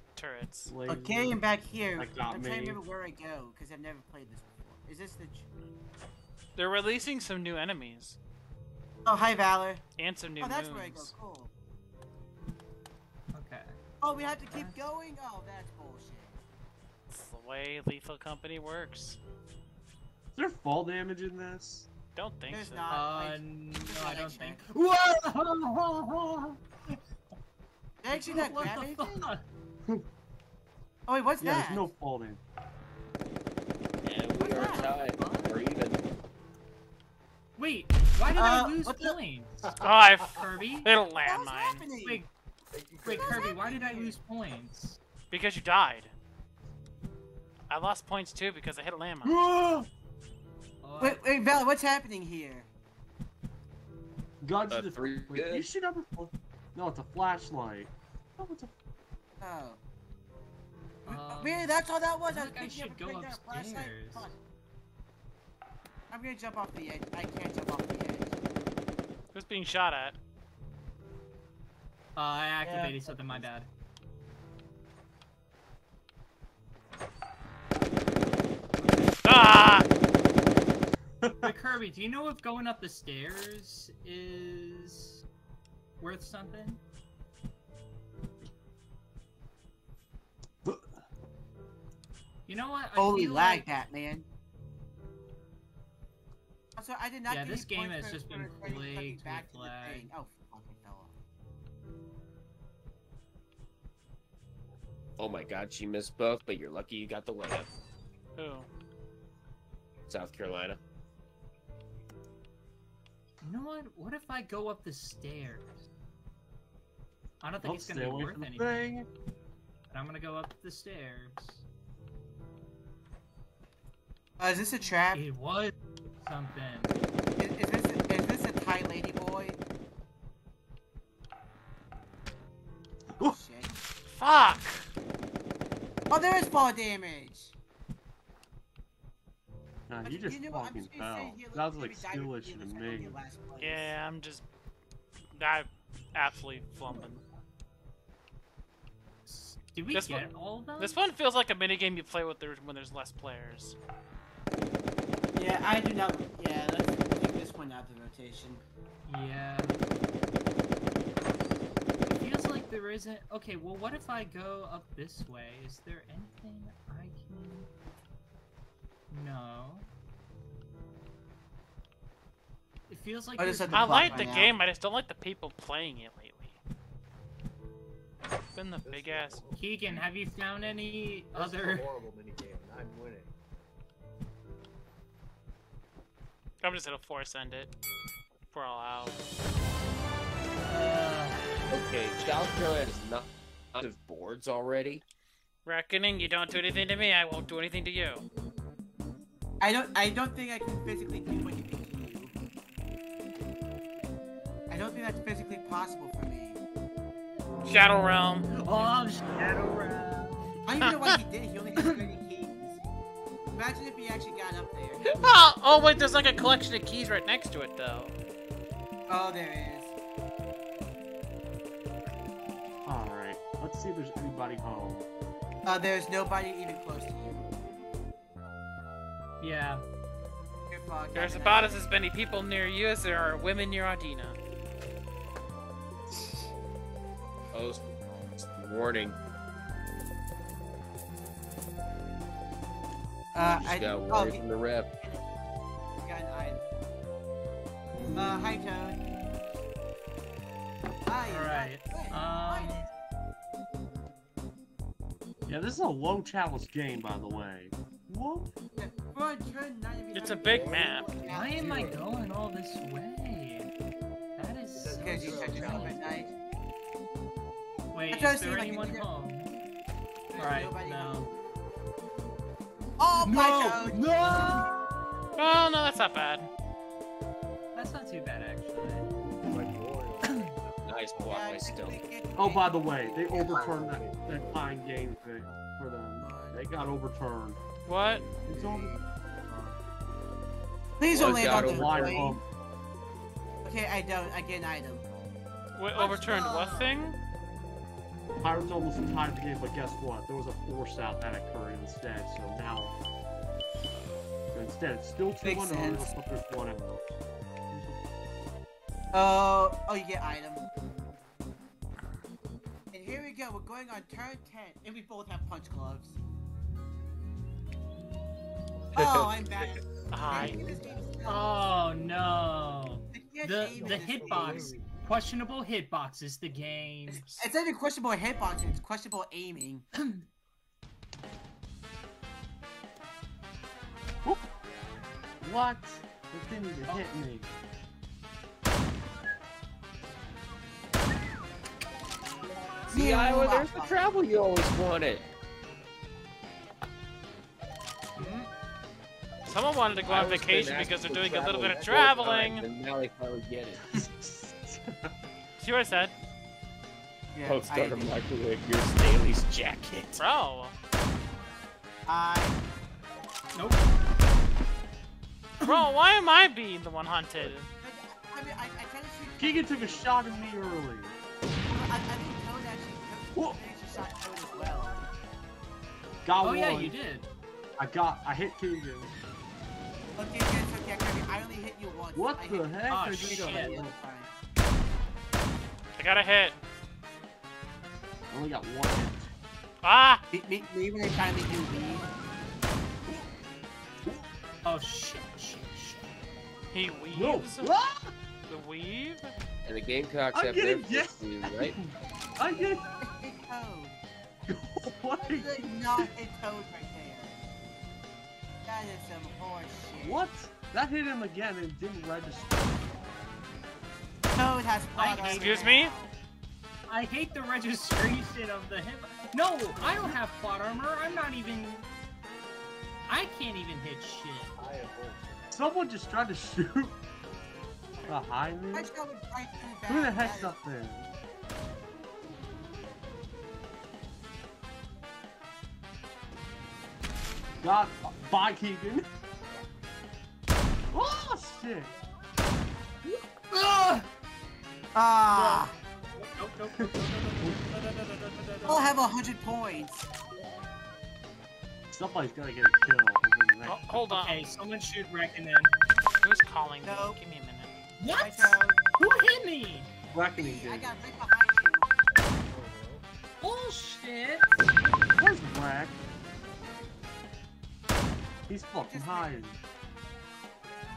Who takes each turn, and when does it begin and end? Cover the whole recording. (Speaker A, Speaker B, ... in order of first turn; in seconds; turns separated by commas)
Speaker A: 0.1-0.7, Speaker B: 0.7-1.4, Speaker C: 0.9-5.5, Speaker B: 1.9-2.8, Speaker A: 6.6-8.2, Speaker C: 9.0-9.8, Speaker A: 10.0-11.1, Speaker C: 10.4-11.5, Speaker D: 13.3-13.8, Speaker C: 14.0-16.4, Speaker D: 14.5-14.8, Speaker A: 17.1-19.2, Speaker B: 20.3-21.9, Speaker A: 22.1-22.8, Speaker C: 22.5-24.6, Speaker D: 22.9-26.6, Speaker C: 28.0-29.3, Speaker D: 28.1-29.4, Speaker C: 31.1-31.9, Speaker B: 31.4-32.4, Speaker E: 34.0-36.0, Speaker D: 34.4-35.6, Speaker C: 34.4-34.9, Speaker D: 37.6-39.6, Speaker C: 38.3-39.2, Speaker A: 39.8-41.8, Speaker D: 40.3-40.9, Speaker C: 41.2-42.2, Speaker D: 42.0-42.3, Speaker F: 42.7-43.9, Speaker D: 43.0-45.0, Speaker C: 43.0-44.2, Speaker A: 45.3-46.1, Speaker A: 47.7-49.4, Speaker B: 49.2-49.9, Speaker D: 50.8-51.2, Speaker C: 51.0-52.7, Speaker B: 54.4-58.7, Speaker E: 54.7-55.6, Speaker C: 59.4-59.8, Speaker D: 61.0-64.3, Speaker C: 61.0-64.3, Speaker C: 66.1-68.3, Speaker A: 69.3-70.2, Speaker D: 72.2-73.7, Speaker C: 72.6-73.5, Speaker A: 79.2-79.8, Speaker B: 81.2-81.5, Speaker D: 81.4-85.2, Speaker D: 86.0-86.8, Speaker B: 90.6-91.0, Speaker D: 92.5-93.7, Speaker C: 92.9-94.2, Speaker C: 96.8-101.1, Speaker D: 97.3-100.1, Speaker E: 105.2-107.7, Speaker A: 108.4-108.7, Speaker E: 110.1-110.8, Speaker D: 113.4-115.8, Speaker D: 117.4-118.9, Speaker B: 117.6-119.1, Speaker D: 119.9-121.6, Speaker C: 124.4-125.2, Speaker D: 125.1-126.9, Speaker C: 127.4-129.6, Speaker C: 133.2-133.7, Speaker A: 134.1-134.9, Speaker C: 136.1-137.5, Speaker B: 139.9-143.2, Speaker C: 140.0-143.9, Speaker A: 143.6-144.4, Speaker A: 145.3-147.2, Speaker D: 149.7-151.0, Speaker A: 149.9-150.3, Speaker A: 150.8-153.8, Speaker C: 155.3-158.6, Speaker D: 159.1-159.7, Speaker D: 162.1-167.7, Speaker D: 169.1-169.9, Speaker D: 172.9-174.3, Speaker C: 173.4-174.5, Speaker A: 173.7-176.6, Speaker A: 178.5-179.4, Speaker F: 178.8-180.1, Speaker D: 179.6-181.8, Speaker F: 181.3-183.3, Speaker A: 186.6-187.7, Speaker A: 188.5-189.2, Speaker D: 190.7-191.7, Speaker E: 191.7-195.0, Speaker A: 195.7-198.2, Speaker C: 199.6-202.3, Speaker C: 204.7-206.6, Speaker A: 207.6-208.5, Speaker D: 208.6-210.5, Speaker C: 210.7-212.8, Speaker A: 210.8-211.1, Speaker C: 213.5-215.2, Speaker A: 215.1-218.1, Speaker C: 219.1-219.9, Speaker B: 222.8-225.1, Speaker C: 225.7-227.4, Speaker D: 229.4-229.8, Speaker C: 230.7-231.8, Speaker A: 231.1-234.4, Speaker E: 237.5-237.8, Speaker E: 238.4-239.2, Speaker C: 243.3-244.4, Speaker E: 243.4-244.9, Speaker C: 245.0-245.2, Speaker C: 246.0-246.6, Speaker C: 248.1-249.0, Speaker C: 251.1-252.9, Speaker D: 251.3-252.8, Speaker B: 255.5-258.5, Speaker C: 258.8-261.9, Speaker A: 260.1-261.1, Speaker F: 260.5-262.0, Speaker D: 261.2-263.7, Speaker D: 264.4-266.0, Speaker F: 264.7-266.3, Speaker C: 265.0-266.3, Speaker D: 267.9-269.5, Speaker C: 268.1-269.1, Speaker C: 270.3-271.3, Speaker D: 270.4-271.3, Speaker C: 273.0-274.0, Speaker D: 273.2-275.6, Speaker A: 275.4-276.5, Speaker D: 277.7-279.1, Speaker F: 279.3-281.7, Speaker E: 280.8-282.0, Speaker C: 281.3-284.0, Speaker B: 282.3-287.6, Speaker F: 283.3-284.6, Speaker C: 286.2-286.7, Speaker A: 287.9-288.2, Speaker B: 288.4-288.9, Speaker F: 288.5-289.0, Speaker C: 288.6-288.9, Speaker C: 291.0-292.4, Speaker E: 291.1-292.3, Speaker B: 291.1-292.4, Speaker C: 293.6-295.0, Speaker A: 295.8-297.2, Speaker C: 295.9-296.9, Speaker B: 298.4-302.9, Speaker B: 304.5-307.2, Speaker C: 305.4-306.1, Speaker B: 307.7-308.0, Speaker C: 309.1-310.6, Speaker C: 312.9-316.1, Speaker C: 318.9-321.4, Speaker E: 318.9-319.7, Speaker A: 320.1-320.6, Speaker F: 320.3-321.1, Speaker D: 321.2-327.2, Speaker C: 323.1-324.8, Speaker F: 323.6-324.9, Speaker C: 327.1-329.9, Speaker B: 335.4-337.5, Speaker D: 336.9-337.1, Speaker E: 342.9-345.2, Speaker C: 342.9-344.1, Speaker A: 349.4-352.6, Speaker E: 350.0-353.9, Speaker F: 351.4-352.5, Speaker B: 353.8-355.1, Speaker A: 355.6-356.1, Speaker C: 357.3-358.2, Speaker E: 357.4-360.2, Speaker A: 360.2-360.7, Speaker C: 362.1-362.6, Speaker D: 363.5-363.9, Speaker A: 365.6-367.7, Speaker C: 367.8-370.1, Speaker B: 369.4-371.1, Speaker C: 371.7-375.0, Speaker B: 376.2-376.9, Speaker D: 376.4-377.3, Speaker B: 377.8-379.1, Speaker C: 380.1-384.3, Speaker B: 382.1-384.0, Speaker D: 382.9-383.8, Speaker A: 386.0-386.5, Speaker B: 388.3-389.3, Speaker A: 389.8-390.2, Speaker C: 390.3-392.1, Speaker D: 394.6-396.0, Speaker A: 396.7-397.7, Speaker B: 397.1-398.1, Speaker A: 398.5-399.3, Speaker E: 399.6-401.8, Speaker B: 400.3-402.9, Speaker C: 403.0-404.0, Speaker B: 404.4-406.1, Speaker C: 405.2-407.4, Speaker C: 408.6-410.2, Speaker B: 410.0-412.9, Speaker C: 414.3-416.1, Speaker D: 414.9-415.5, Speaker A: 415.0-415.9, Speaker D: 416.9-421.9, Speaker D: 423.1-424.5, Speaker F: 424.6-425.6, Speaker B: 425.5-426.9, Speaker B: 428.1-428.9, Speaker C: 428.7-430.6, Speaker B: 429.9-431.1, Speaker B: 437.6-439.1, Speaker B: 440.9-441.9, Speaker C: 444.9-445.8, Speaker B: 445.3-445.7, Speaker D: 446.1-448.9, Speaker C: 448.6-450.1, Speaker B: 451.9-453.8, Speaker A: 453.6-454.5, Speaker D: 454.1-455.7, Speaker A: 456.2-457.8, Speaker C: 456.8-457.2, Speaker D: 458.0-459.9, Speaker C: 458.1-458.8, Speaker B: 460.1-461.0, Speaker C: 460.3-461.9, Speaker F: 462.5-463.1, Speaker D: 463.4-464.5, Speaker B: 465.1-466.0, Speaker B: 468.5-469.6, Speaker C: 468.8-469.4